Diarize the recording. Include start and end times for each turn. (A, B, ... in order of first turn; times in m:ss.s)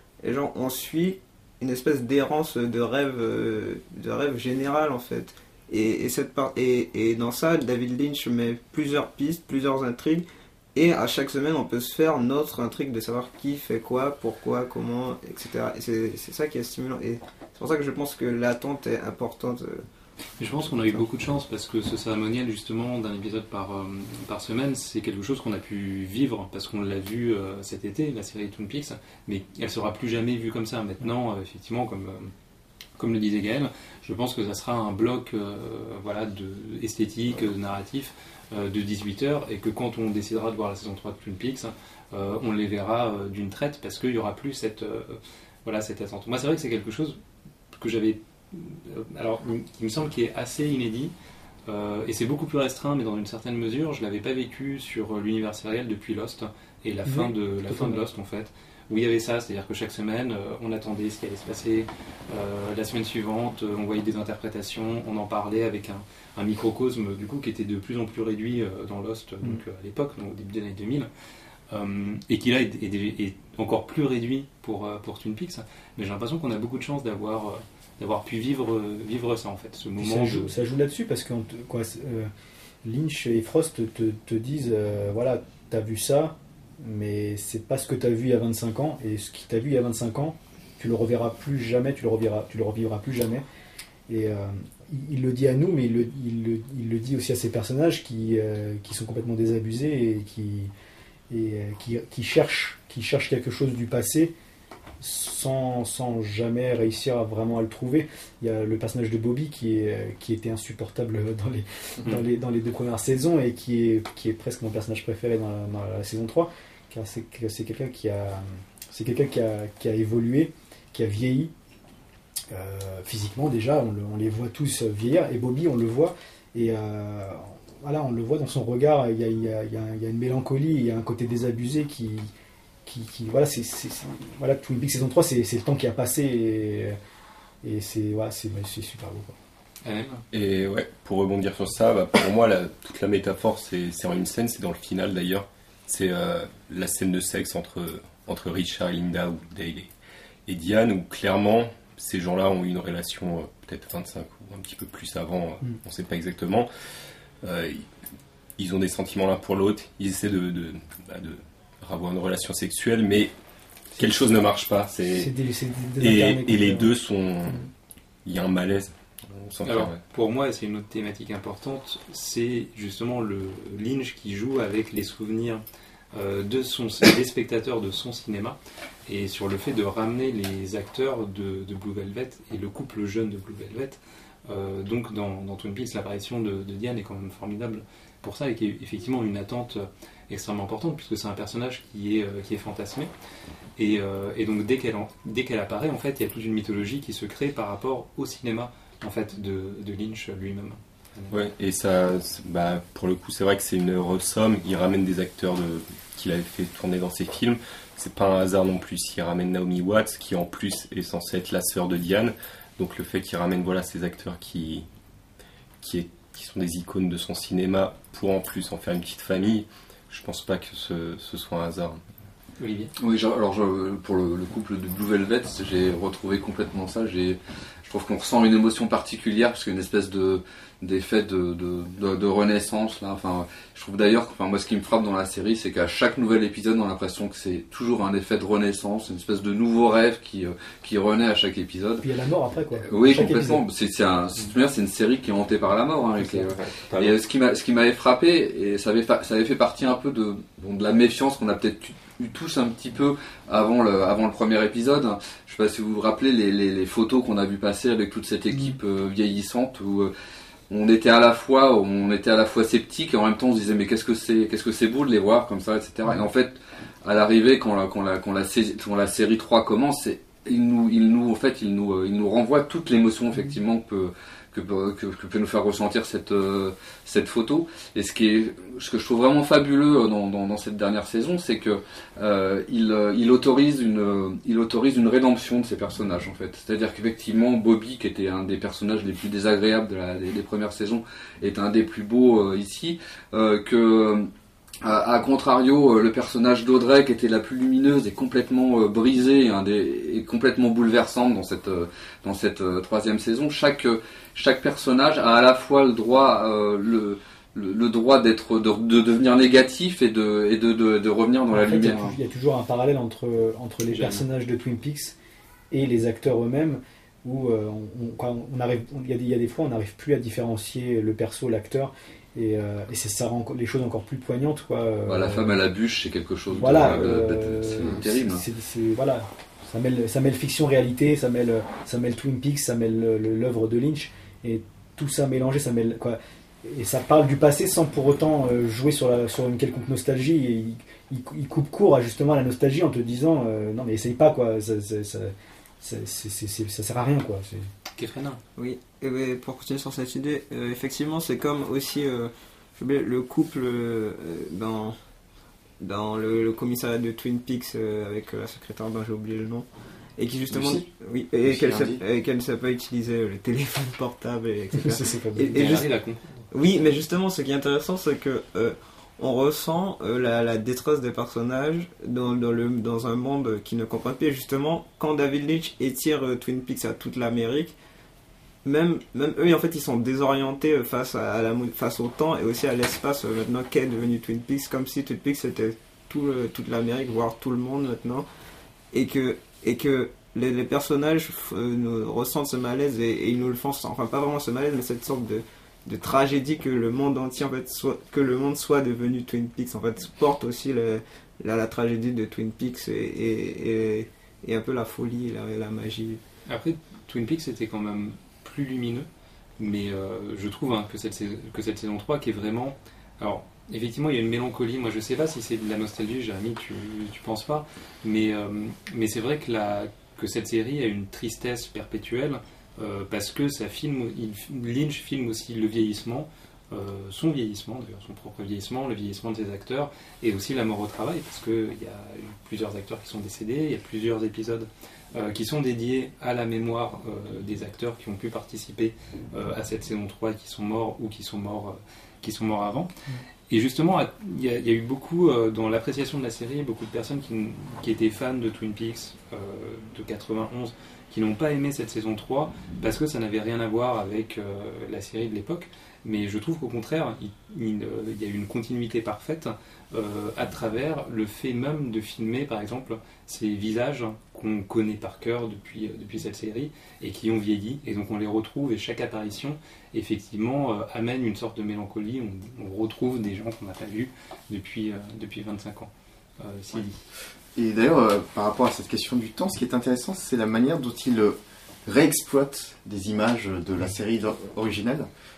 0:00.2-0:19.8 A
0:20.4-0:32.3 B
0:33.0-0:47.2 B
0:47.7-0:51.1 B
0:51.6-1:11.1 B
0:57.0-0:58.0 C
1:11.7-1:20.5 B
1:20.0-1:22.3 C
1:22.8-1:33.4 C
1:34.1-1:40.7 C
1:41.3-1:44.3 C
1:45.0-2:01.5 C
2:02.5-2:12.3 C
2:12.8-2:17.0 C
2:17.6-2:19.3 C
2:19.8-2:20.2 B
2:20.3-2:29.9 D
2:30.4-2:36.7 D
2:37.4-2:37.8 D
2:38.6-2:43.3 D
2:43.9-2:45.3 D
2:45.1-2:46.9 C
2:46.0-2:47.7 D
2:48.2-2:50.0 D
2:49.6-2:55.6 B
2:56.1-3:13.1 B
3:13.8-3:21.4 B
3:21.3-3:34.8 D
3:35.8-3:42.0 D
3:42.6-3:42.9 B
3:43.0-4:02.1 E
4:02.0-4:03.6 C
4:02.8-4:20.1 E
4:06.2-4:07.2 D
4:20.7-4:54.3 E
4:54.8-5:12.2 E
5:11.5-5:15.2 C
5:13.9-5:14.2 B
5:15.7-5:25.6 C
5:25.0-5:28.4 E
5:26.5-5:47.7 C
5:48.0-5:48.4 B
5:48.6-5:55.0 A
5:55.8-6:05.9 A
6:00.5-6:00.8 F
6:01.4-6:02.0 F
6:04.7-6:05.8 C
6:05.5-6:06.5 B
6:06.5-6:17.7 A
6:18.6-6:28.2 A
6:28.9-6:46.2 A
6:46.4-6:49.1 B
6:49.6-7:22.9 B
7:23.5-7:57.0 B
7:57.6-8:05.1 F